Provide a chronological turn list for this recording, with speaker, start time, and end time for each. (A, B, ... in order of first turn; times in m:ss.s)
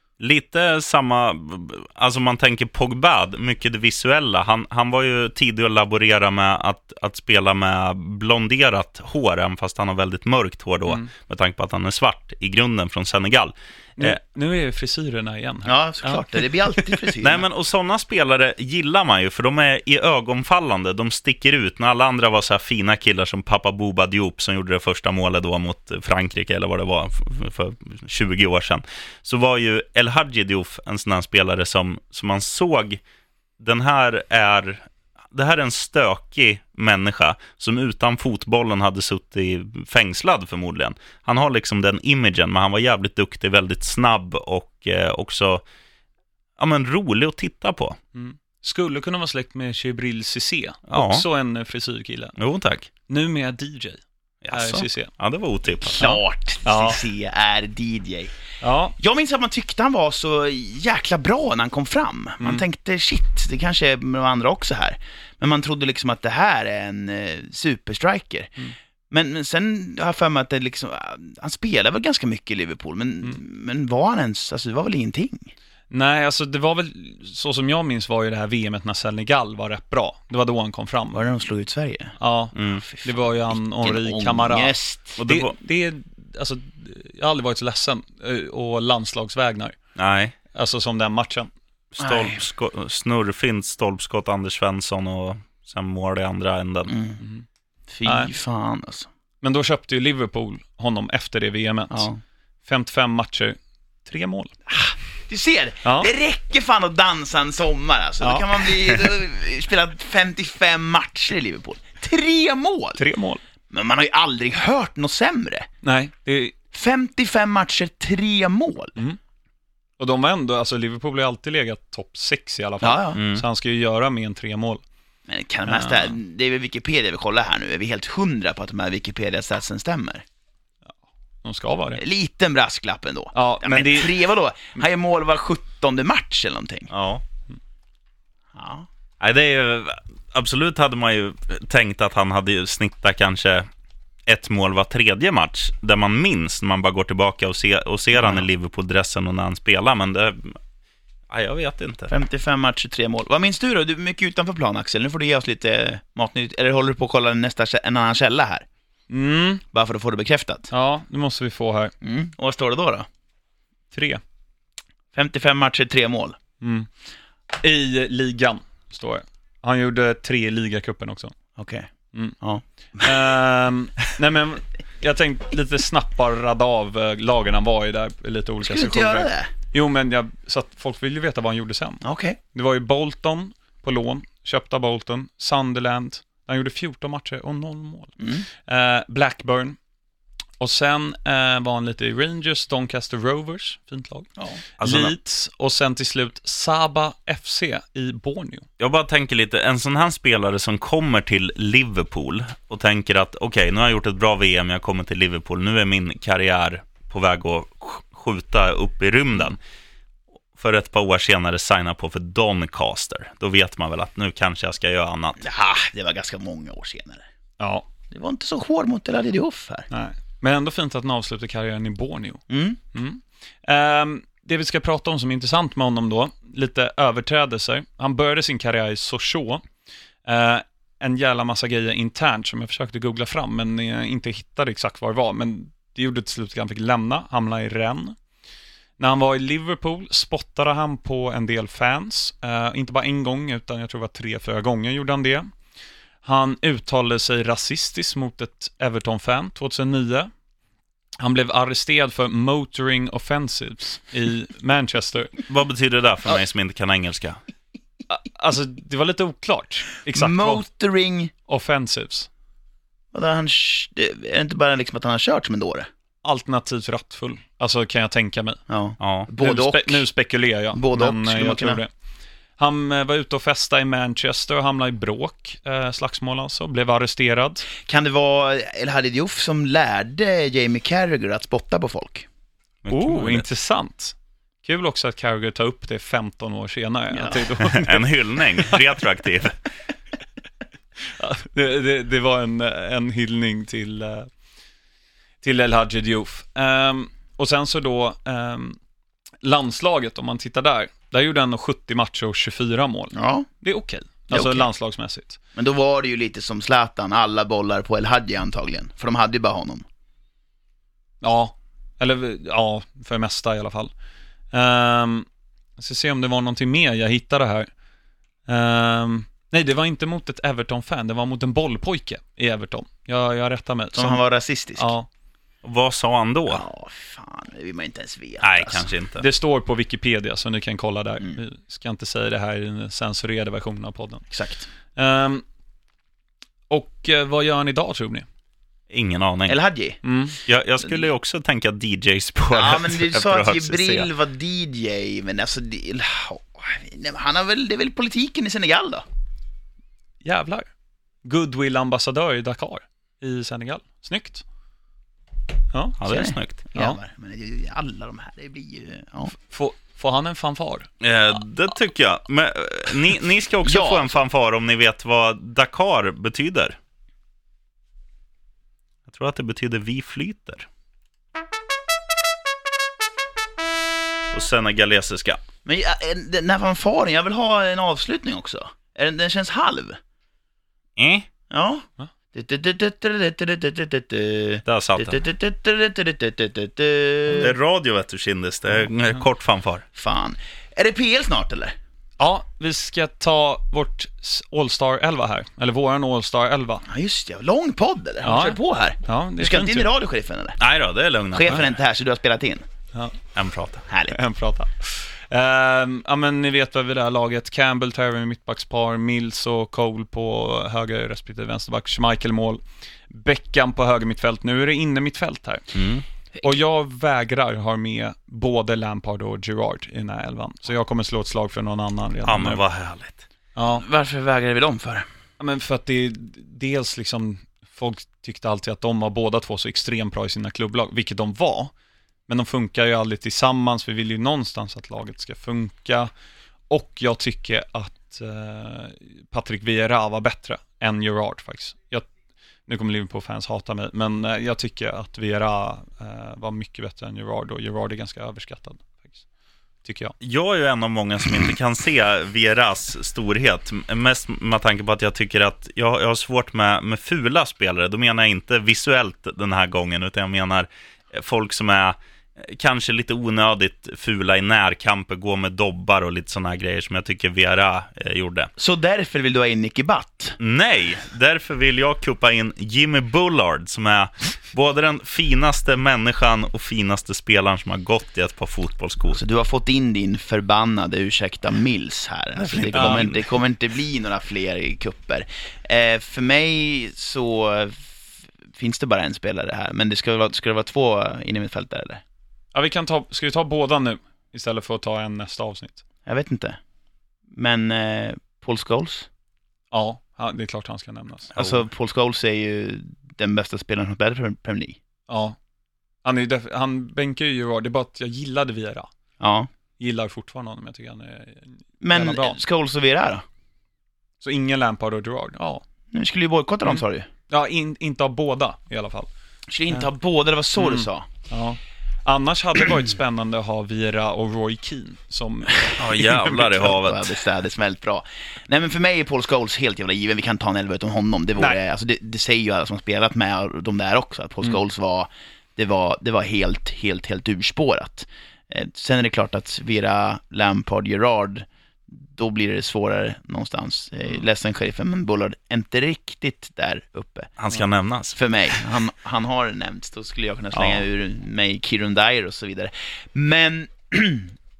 0:00.2-0:14.2 A
0:14.0-0:16.9 B
0:15.7-0:17.5 C
0:17.2-0:33.0 A
0:33.6-0:45.6 A
0:46.6-0:48.0 A
0:48.2-0:52.3 B
0:50.9-0:51.2 A
0:52.4-0:52.9 A
0:53.1-0:55.1 B
0:54.4-0:56.1 A
0:55.9-0:58.3 C
0:56.0-0:57.0 B
0:58.6-0:59.0 B
0:59.0-1:08.6 C
1:09.1-1:15.5 C
1:15.9-1:21.2 B
1:21.1-1:22.2 C
1:22.2-1:29.8 B
1:22.6-1:22.8 A
1:22.8-1:25.2 C
1:25.2-1:25.5 A
1:30.0-1:30.4 A
1:30.5-1:31.5 B
1:32.0-1:36.9 A
1:32.0-1:32.4 C
1:36.9-1:37.2 C
1:37.2-1:37.4 B
1:37.9-1:39.1 C
1:38.0-1:38.3 B
1:39.4-1:42.1 B
1:41.9-1:42.2 C
1:42.7-1:44.5 B
1:44.7-1:53.0 C
1:45.8-1:46.1 B
1:48.2-1:48.6 B
1:53.0-1:53.4 B
1:53.7-1:55.7 C
1:55.8-1:56.6 B
1:56.7-1:59.0 C
2:00.0-2:04.8 B
2:02.8-2:03.2 C
2:03.2-2:03.4 A
2:05.3-2:10.2 C
2:05.7-2:06.2 B
2:11.4-2:12.0 B
2:12.0-2:16.9 C
2:13.3-2:14.2 B
2:16.9-2:17.2 A
2:18.5-2:18.9 C
2:19.2-2:23.7 A
2:24.3-2:30.6 A
2:28.2-2:28.4 C
2:31.3-2:32.1 A
2:32.1-2:38.7 C
2:39.1-2:39.6 B
2:39.7-2:40.7 C
2:40.7-2:41.9 B
2:42.0-2:43.1 C
2:43.9-2:44.2 B
2:45.1-2:46.4 C
2:46.6-2:46.9 B
2:47.5-2:51.4 B
2:51.6-2:51.9 C
2:52.4-2:53.2 C
2:53.0-3:02.0 B
2:58.6-2:59.5 C
3:02.0-3:02.4 C
3:02.5-3:09.8 B
3:08.2-3:08.4 C
3:10.6-3:18.7 B
3:14.8-3:15.1 A
3:18.8-3:29.6 A
3:30.6-3:35.4 A
3:35.4-3:37.2 C
3:37.6-3:37.8 B
3:38.1-3:39.9 C
3:39.9-3:49.6 B
3:42.5-3:42.8 C
3:50.2-3:58.2 B
3:59.0-4:05.5 B
4:06.2-4:10.3 B
4:11.2-4:15.4 B
4:15.5-4:17.4 A
4:18.1-4:20.6 B
4:20.1-4:21.3 C
4:21.5-4:22.3 B
4:23.1-4:25.9 C
4:26.2-4:28.6 B
4:28.7-4:30.0 C
4:29.0-4:29.3 A
4:29.4-4:31.9 B
4:30.7-4:31.8 C
4:32.6-4:37.7 B
4:37.8-4:42.3 C
4:42.8-4:43.4 A
4:42.9-4:48.1 B
4:47.1-4:47.5 C
4:47.6-4:49.6 A
4:51.0-4:54.3 B
4:55.4-4:58.8 B
4:59.4-5:05.4 B
5:03.1-5:03.5 C
5:04.3-5:04.7 C
5:05.6-5:09.8 C
5:11.2-5:13.9 B
5:14.5-5:15.3 B
5:15.8-5:17.7 B
5:18.5-5:24.2 B
5:23.9-5:24.9 C
5:24.8-5:25.1 B
5:25.6-5:26.6 A
5:26.5-5:28.9 C
5:28.4-5:29.2 A
5:29.2-5:34.3 B
5:34.3-5:34.7 C
5:35.0-5:35.4 B
5:36.7-5:38.3 B
5:38.9-5:39.6 A
5:39.5-5:40.0 C
5:40.0-5:40.4 B
5:40.5-5:44.1 A
5:42.5-5:49.0 C
5:50.2-5:50.7 B
5:51.2-5:54.4 B
5:55.7-5:56.0 B
5:56.0-5:56.6 A
5:56.1-5:59.3 C
5:59.4-6:00.9 B
6:01.0-6:06.8 A
6:03.6-6:04.2 C
6:09.1-6:10.7 A
6:14.3-6:15.4 A
6:15.6-6:20.0 C
6:21.0-6:21.3 A
6:21.5-6:27.5 C
6:24.7-6:25.2 A
6:27.4-6:29.8 A
6:30.0-6:31.8 C
6:32.2-6:36.9 B
6:36.9-6:40.6 C
6:38.2-6:39.9 B
6:40.6-6:41.7 A
6:41.3-6:42.6 C
6:43.4-6:43.8 A
6:43.9-6:44.2 C
6:44.1-6:55.8 B
6:55.7-6:56.0 A
6:56.4-7:02.6 B
7:02.3-7:03.2 A
7:03.6-7:03.8 B
7:03.7-7:05.1 C
7:05.4-7:11.7 B
7:12.3-7:16.1 B
7:16.7-7:22.1 B
7:22.7-7:29.2 B
7:29.8-7:30.2 B
7:30.2-7:48.5 A
7:48.6-7:50.4 C
7:50.4-7:59.2 A
7:59.2-8:12.0 C
8:02.4-8:03.3 A
8:02.7-8:03.1 B
8:12.5-8:15.8 B
8:16.1-8:16.6 C
8:17.3-8:19.1 C
8:19.7-8:21.4 B
8:21.4-8:24.8 C
8:25.1-8:25.4 B
8:26.0-8:28.9 B
8:29.2-8:29.5 C
8:29.8-8:32.4 B
8:31.8-8:33.2 C
8:34.2-8:35.6 B
8:35.9-8:37.1 C
8:36.6-8:39.1 B
8:39.5-8:41.1 C
8:40.6-8:46.5 B
8:45.8-8:47.1 A
8:46.1-9:07.3 C
9:07.4-9:08.2 A
9:08.2-9:14.3 C
9:10.5-9:10.8 A